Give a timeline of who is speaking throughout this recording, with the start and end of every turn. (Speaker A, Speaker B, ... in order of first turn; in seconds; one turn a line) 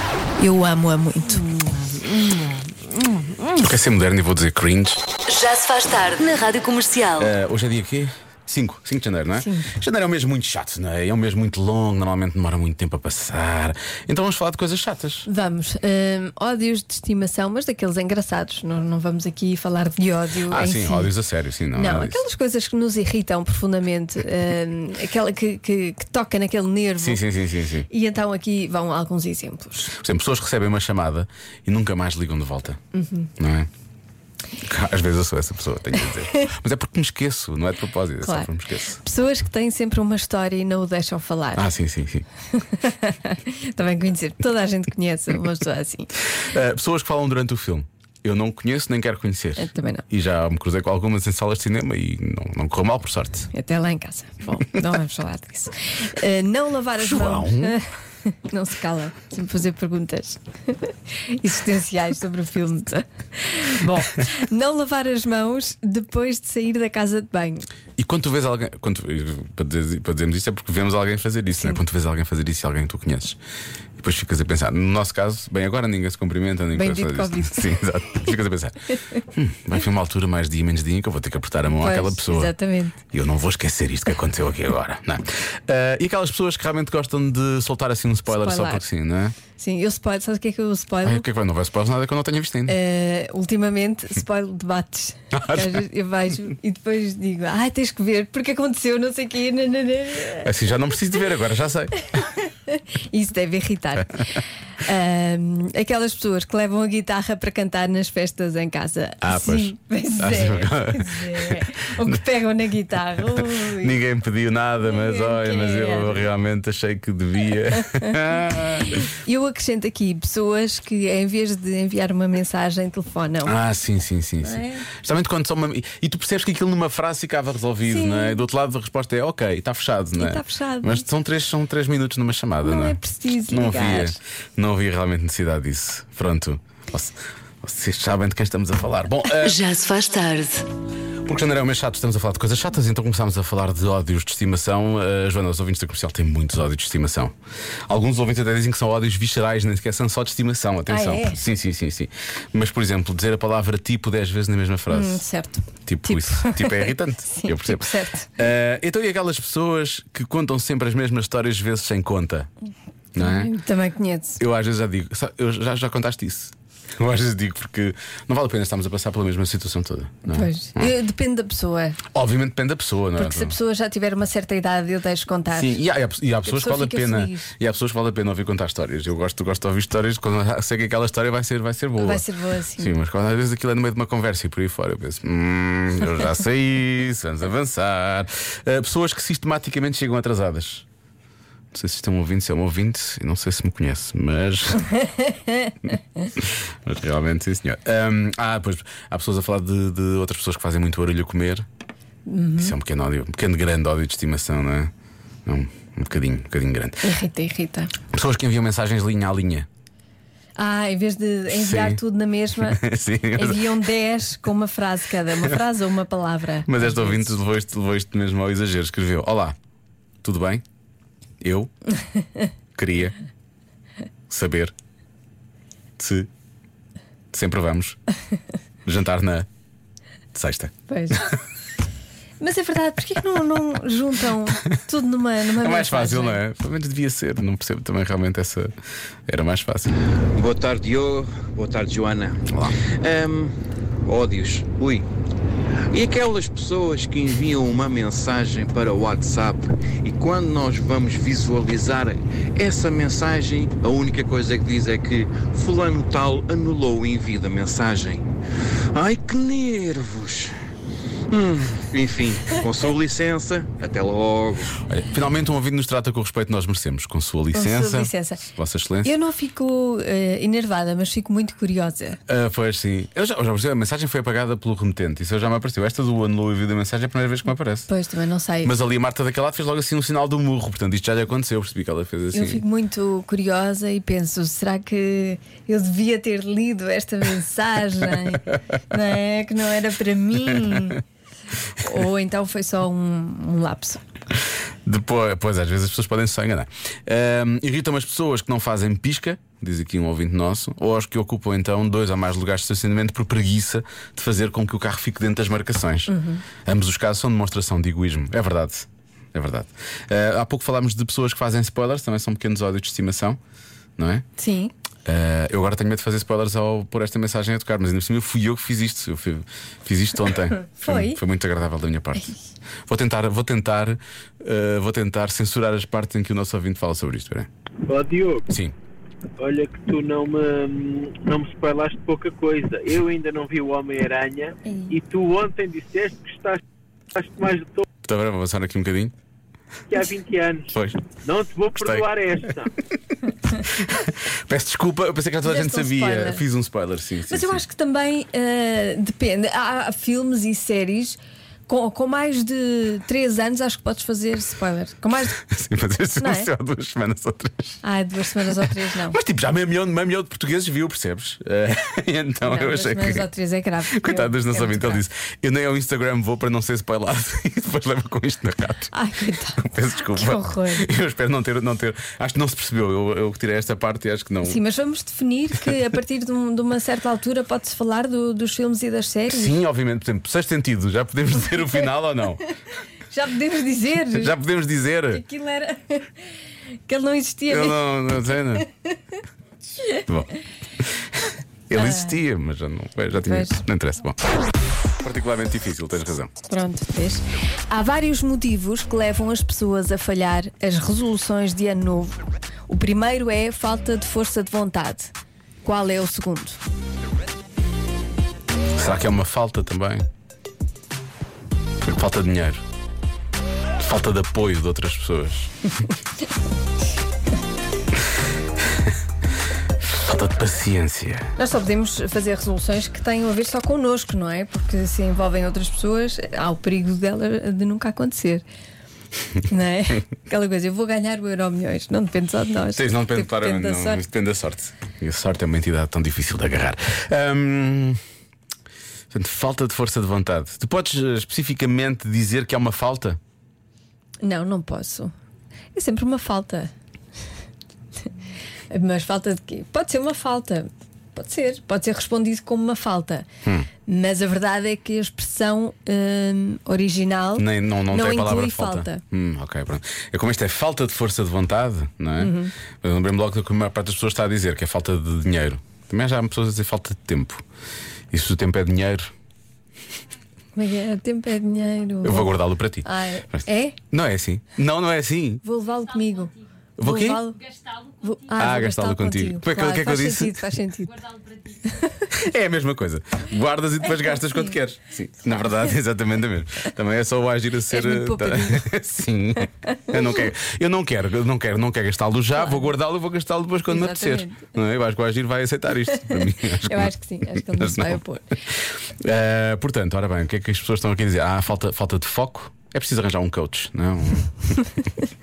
Speaker A: 0.4-1.5
Speaker B: 1.8-3.6
Speaker C: 3.9-5.0
Speaker B: 5.2-7.3
Speaker C: 7.5-15.0
Speaker A: 9.3-9.7
Speaker A: 15.2-21.1
Speaker C: 20.5-22.2
Speaker A: 21.7-27.2
Speaker C: 27.0-27.9
Speaker A: 27.9-29.9
Speaker C: 29.9-32.8
Speaker A: 32.9-33.3
Speaker C: 33.4-33.7
Speaker C: 34.6-38.7
Speaker A: 38.2-41.7
Speaker C: 41.5-42.2
Speaker A: 42.5-46.1
Speaker C: 46.5-53.5
Speaker A: 49.6-50.0
Speaker A: 53.5-67.7
Speaker C: 57.0-57.8
Speaker C: 68.0-73.4
Speaker C: 74.0-78.7
Speaker A: 76.7-77.7
Speaker C: 79.3-82.5
Speaker A: 81.8-83.0
Speaker C: 83.1-89.4
Speaker A: 88.3-88.8
Speaker A: 89.5-91.2
Speaker C: 91.0-92.7
Speaker A: 92.7-100.5
Speaker C: 95.3-95.8
Speaker C: 100.4-101.9
Speaker A: 102.0-104.3
Speaker A: 104.8-114.0
Speaker C: 109.2-112.2
Speaker C: 113.3-119.0
Speaker A: 114.8-116.3
Speaker A: 117.9-123.5
Speaker C: 123.4-139.5
Speaker A: 124.4-124.8
Speaker A: 127.8-128.4
Speaker A: 130.2-131.0
Speaker A: 132.6-134.2
Speaker B: 139.4-140.6
Speaker C: 141.2-147.3
Speaker C: 147.9-155.2
Speaker A: 150.9-151.4
Speaker A: 154.9-158.3
Speaker C: 155.8-162.5
Speaker C: 163.1-163.5
Speaker A: 163.2-164.4
Speaker C: 164.4-170.9
Speaker A: 170.3-172.0
Speaker C: 172.1-173.5
Speaker A: 173.2-175.8
Speaker C: 175.5-182.2
Speaker A: 176.4-177.5
Speaker A: 182.0-182.9
Speaker C: 182.8-190.8
Speaker C: 191.7-194.8
Speaker A: 195.2-195.7
Speaker C: 196.4-201.7
Speaker A: 202.2-202.8
Speaker C: 202.6-204.9
Speaker C: 205.4-207.0
Speaker A: 207.0-207.9
Speaker C: 208.1-209.7
Speaker A: 210.6-212.8
Speaker C: 211.5-212.0
Speaker C: 212.5-213.7
Speaker A: 213.3-217.4
Speaker C: 216.7-219.5
Speaker C: 220.2-220.6
Speaker C: 221.4-221.7
Speaker C: 222.7-223.1
Speaker C: 224.3-224.7
Speaker C: 226.0-226.3
Speaker C: 227.3-228.0
Speaker C: 228.8-229.5
Speaker C: 230.3-230.7
Speaker A: 230.9-231.4
Speaker A: 232.4-236.4
Speaker C: 235.6-238.7
Speaker C: 239.3-239.9
Speaker D: 240.3-245.0
Speaker D: 245.9-258.2
Speaker D: 258.9-260.5
Speaker D: 261.3-264.8
Speaker C: 264.9-269.1
Speaker A: 267.5-268.4
Speaker A: 269.0-272.2
Speaker C: 272.3-277.9
Speaker A: 277.9-278.7
Speaker C: 278.6-282.6
Speaker A: 282.3-291.0
Speaker A: 291.7-294.0
Speaker C: 294.8-306.1
Speaker A: 306.1-306.4
Speaker C: 306.6-313.4
Speaker C: 314.0-314.2
Speaker A: 314.4-314.7
Speaker C: 315.1-322.3
Speaker A: 320.7-321.2
Speaker C: 322.9-327.5
Speaker E: 327.9-328.4
Speaker E: 329.4-336.6
Speaker A: 334.6-335.0
Speaker E: 337.1-337.8
Speaker C: 338.1-339.1
Speaker E: 339.9-342.7
Speaker C: 341.8-342.1
Speaker C: 344.3-347.6
Speaker A: 345.4-346.4
Speaker A: 347.3-355.4
Speaker C: 355.4-357.8
Speaker A: 356.2-356.5
Speaker A: 357.8-359.2
Speaker C: 358.6-363.3
Speaker A: 362.4-365.0
Speaker C: 363.9-368.9
Speaker A: 368.9-370.9
Speaker C: 369.6-374.6
Speaker A: 374.4-379.6
Speaker C: 379.3-382.4
Speaker A: 383.1-384.3
Speaker C: 384.2-385.2
Speaker A: 385.1-386.3
Speaker A: 386.9-388.6
Speaker C: 387.5-388.6
Speaker C: 391.7-394.2
Speaker A: 391.7-392.2
Speaker A: 393.2-393.6
Speaker C: 395.0-396.3
Speaker A: 396.5-406.6
Speaker C: 408.8-410.0
Speaker C: 411.8-412.6
Speaker C: 413.8-415.5
Speaker C: 420.0-421.3
Speaker A: 421.4-428.4
Speaker A: 429.5-434.0
Speaker C: 432.8-438.0
Speaker C: 439.1-443.2
Speaker A: 444.2-445.1
Speaker A: 445.7-446.7
Speaker A: 448.7-453.2
Speaker A: 453.9-459.0
Speaker C: 457.4-467.4
Speaker A: 462.2-462.5
Speaker C: 468.1-469.1
Speaker A: 470.6-473.8
Speaker C: 472.0-475.4
Speaker A: 475.4-482.0
Speaker C: 476.8-477.2
Speaker C: 478.4-480.3
Speaker C: 482.1-498.0
Speaker A: 487.7-488.7
Speaker A: 489.6-490.1
Speaker A: 492.3-492.7
Speaker A: 493.7-494.5
Speaker A: 495.9-498.3
Speaker C: 499.0-504.5